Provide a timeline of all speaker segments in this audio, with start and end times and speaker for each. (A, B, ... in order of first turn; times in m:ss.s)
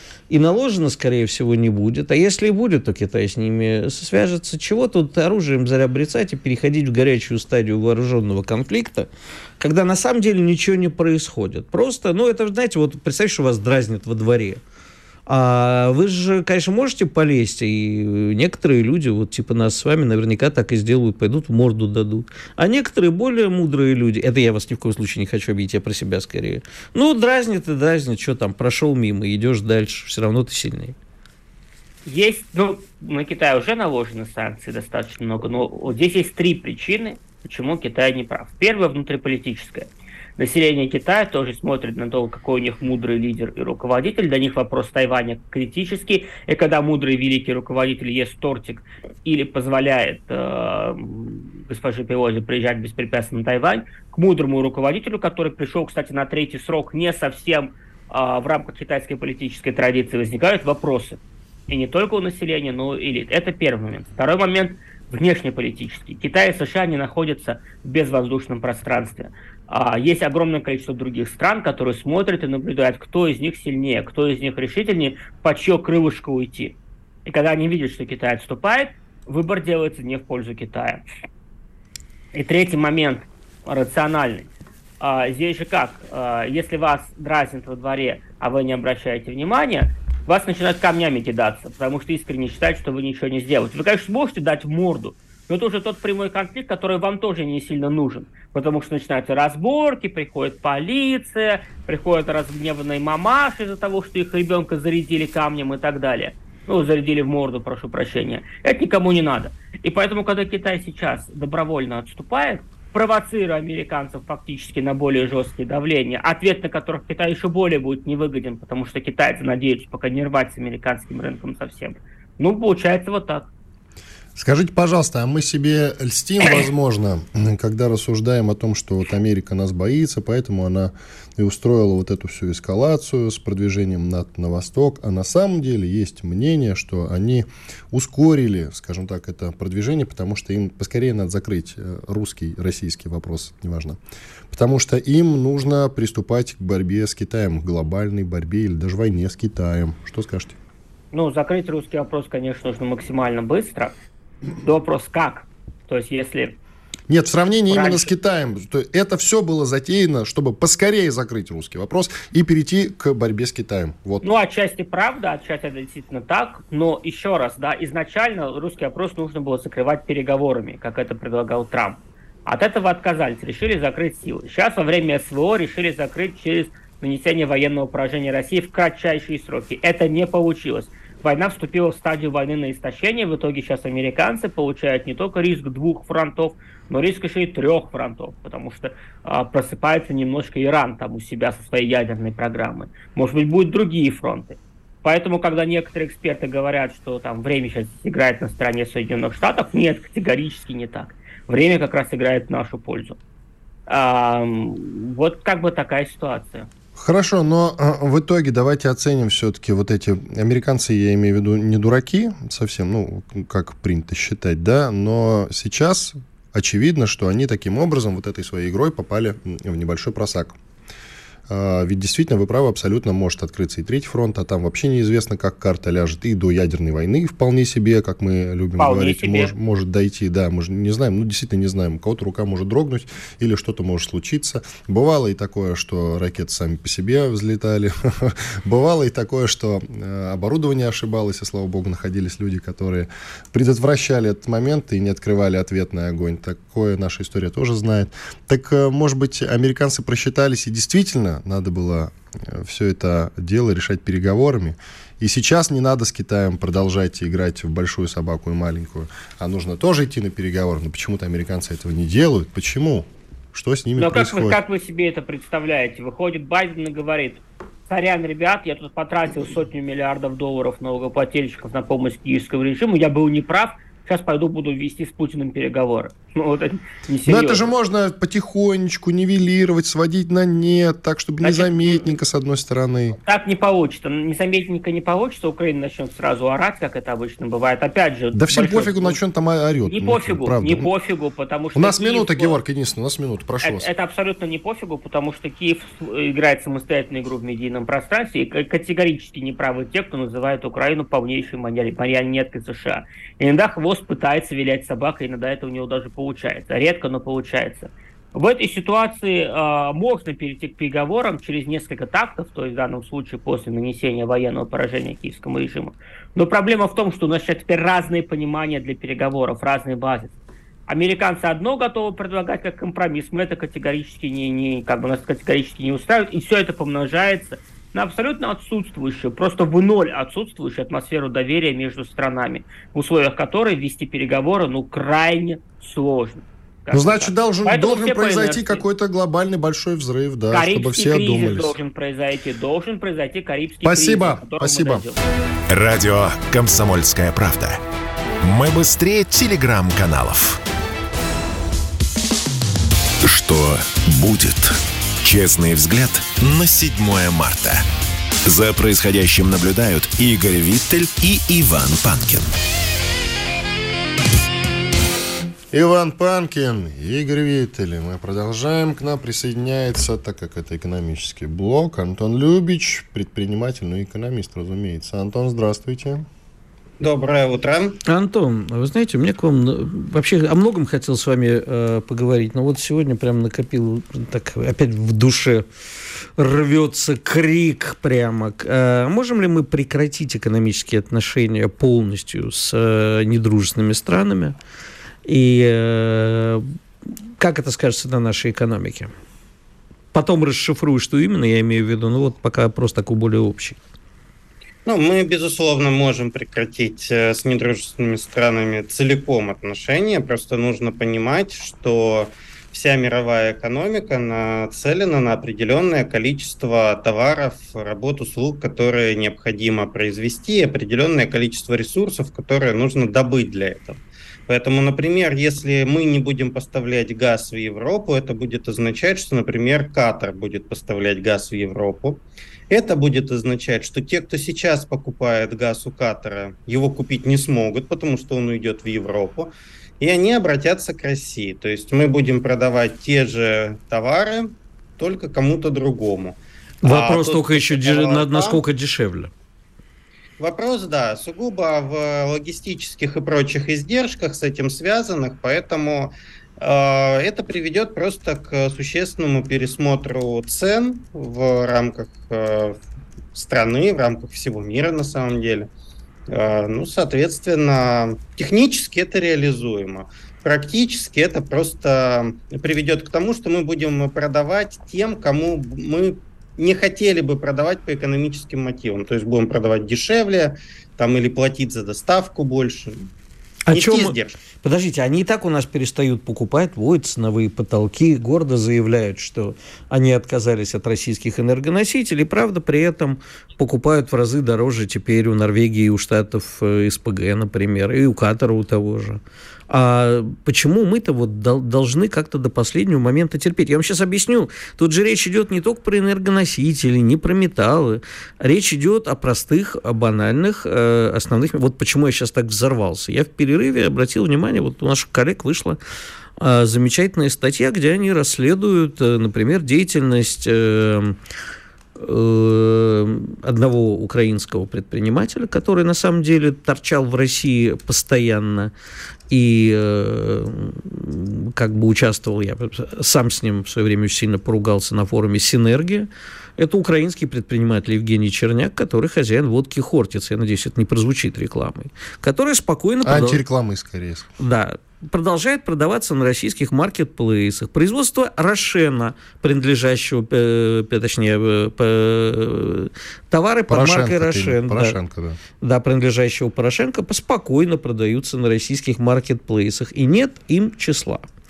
0:00.3-0:09.1 A
0:09.6-0:14.6 A
0:15.3-0:30.9 A
0:32.0-1:21.0 B
1:22.3-1:24.5 B
1:25.0-2:03.5 B
2:04.4-2:24.0 C
2:24.5-2:30.6 C
2:31.1-2:33.9 B
2:34.6-2:36.6 B
2:37.1-2:44.3 C
2:37.7-2:38.1 B
2:44.2-3:23.2 B
3:23.9-3:26.7 B
3:27.0-3:40.5 C
3:41.5-4:24.6 C
3:48.8-3:49.5 B
4:24.0-4:37.6 B
4:37.2-4:43.2 C
4:41.4-4:42.0 B
4:43.2-4:49.2 B
4:48.3-4:50.9 C
4:49.8-4:52.6 B
4:51.7-4:53.9 C
4:53.6-5:20.3 B
5:20.9-5:38.8 B
5:36.9-5:41.8 C
5:40.5-5:45.2 B
5:43.8-5:45.0 C
5:45.7-5:47.8 D
5:48.4-5:50.6 D
5:53.2-5:57.8 D
5:58.4-6:02.5 D
6:05.7-6:16.2 C
6:17.0-6:18.0 E
6:18.0-6:25.6 A
6:26.4-6:34.6 A
6:35.2-6:36.6 A
6:37.4-6:39.1 A
6:40.1-6:43.8 A
6:44.8-7:28.6 E
7:26.8-7:29.3 A
7:30.4-7:42.8 E
7:43.3-7:45.7 E
7:46.3-8:03.1 E
8:03.7-8:35.8 A
8:03.7-8:04.4 E
8:36.4-8:41.2 A
8:42.0-8:48.7 A
8:49.3-9:03.4 A
9:03.0-9:04.3 C
9:04.4-9:15.0 A
9:13.7-9:15.4 C
9:15.6-9:21.2 A